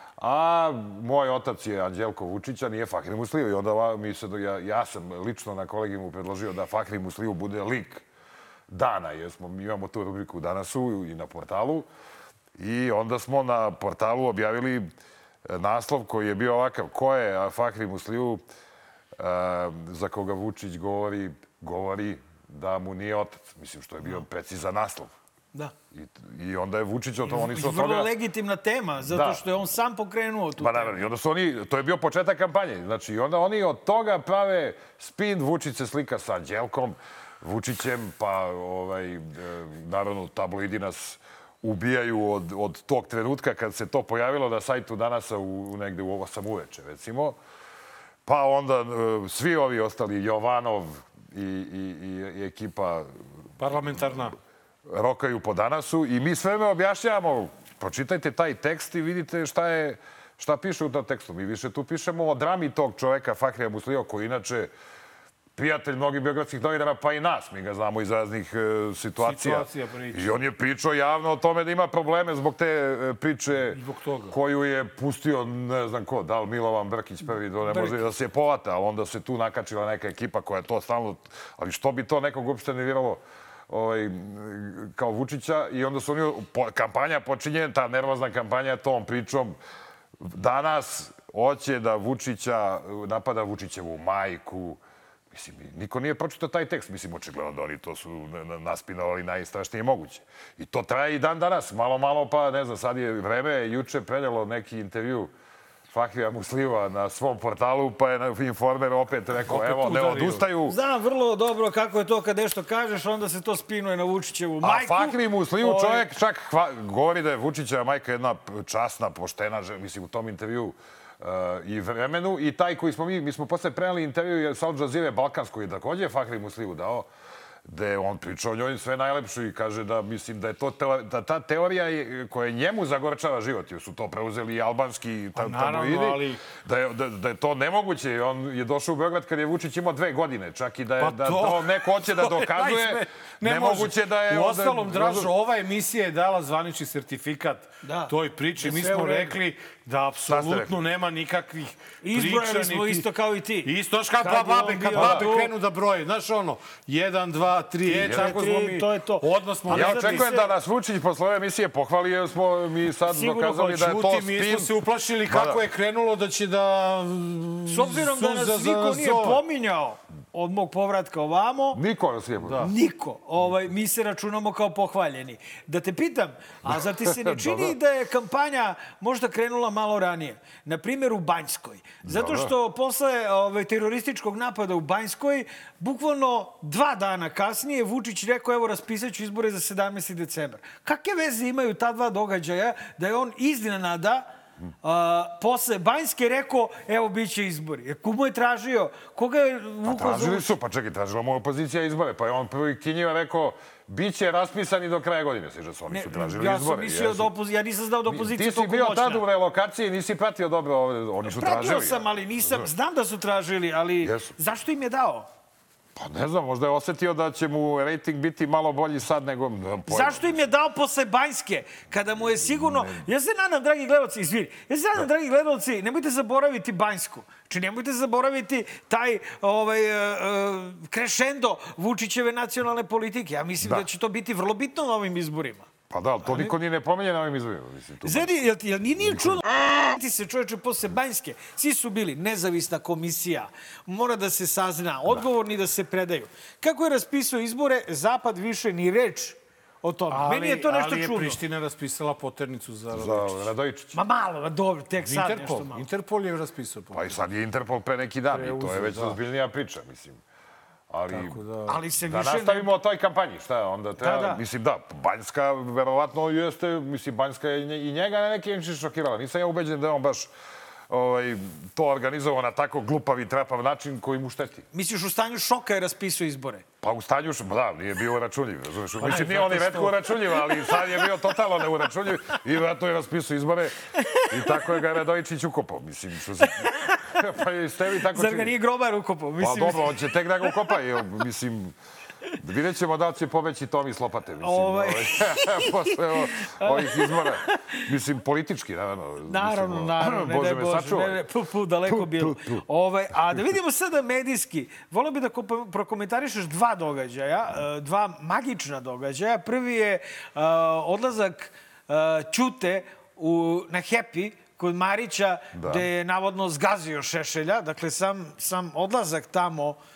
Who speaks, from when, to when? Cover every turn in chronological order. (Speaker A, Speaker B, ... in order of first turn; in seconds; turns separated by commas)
Speaker A: 0.2-8.1, Speaker A: 8.7-11.9, Speaker A: 12.6-14.9, Speaker A: 15.5-18.4, Speaker A: 19.2-25.1, Speaker A: 25.9-28.1, Speaker B: 27.3-31.0, Speaker A: 29.0-29.4, Speaker A: 30.6-47.4, Speaker A: 48.3-54.1, Speaker C: 53.6-54.4, Speaker A: 54.9-64.7, Speaker A: 65.6-73.8, Speaker C: 69.2-70.5, Speaker C: 73.7-74.4, Speaker A: 74.3-89.6, Speaker C: 77.7-78.0, Speaker A: 90.2-94.8, Speaker A: 95.3-105.3, Speaker A: 105.9-110.8, Speaker C: 109.5-110.5, Speaker B: 110.7-116.1, Speaker A: 114.6-127.1, Speaker A: 127.7-145.3, Speaker C: 135.3-136.4, Speaker C: 141.0-153.1, Speaker B: 147.8-149.3, Speaker A: 150.3-150.7, Speaker B: 152.0-155.5, Speaker C: 153.6-160.3, Speaker A: 154.9-155.2, Speaker A: 157.9-158.4, Speaker B: 158.0-160.5, Speaker A: 159.7-164.7, Speaker B: 163.1-163.7, Speaker C: 163.5-169.4, Speaker A: 165.3-165.6, Speaker B: 167.7-171.8, Speaker A: 171.7-172.7, Speaker C: 172.4-172.7, Speaker B: 172.6-194.3, Speaker A: 176.7-177.7, Speaker A: 182.0-182.5, Speaker B: 194.8-200.5, Speaker A: 199.9-207.3, Speaker B: 205.9-209.3, Speaker A: 208.1-212.7, Speaker B: 211.3-215.3, Speaker A: 214.0-214.3, Speaker A: 216.0-220.3, Speaker B: 219.9-235.7, Speaker A: 222.5-222.9, Speaker A: 235.9-238.4, Speaker B: 236.2-236.5, Speaker B: 238.0-251.4, Speaker A: 239.0-239.4, Speaker C: 250.1-253.5, Speaker A: 252.9-253.9, Speaker B: 253.9-255.8, Speaker C: 255.0-257.2, Speaker A: 256.9-260.2, Speaker C: 258.3-259.2, Speaker A: 260.9-261.4, Speaker C: 261.1-261.8, Speaker B: 261.7-262.7, Speaker A: 262.0-270.3, Speaker B: 264.0-264.4, Speaker A: 270.9-274.6, Speaker B: 274.7-276.6, Speaker A: 276.8-283.7, Speaker C: 279.0-280.1, Speaker B: 280.6-281.1, Speaker B: 284.0-284.8, Speaker A: 284.3-288.5, Speaker B: 286.4-287.0, Speaker B: 288.1-290.0, Speaker A: 289.4-291.8, Speaker A: 292.4-301.2, Speaker B: 294.4-297.8, Speaker B: 299.3-319.8, Speaker A: 301.9-302.6, Speaker A: 315.5-315.9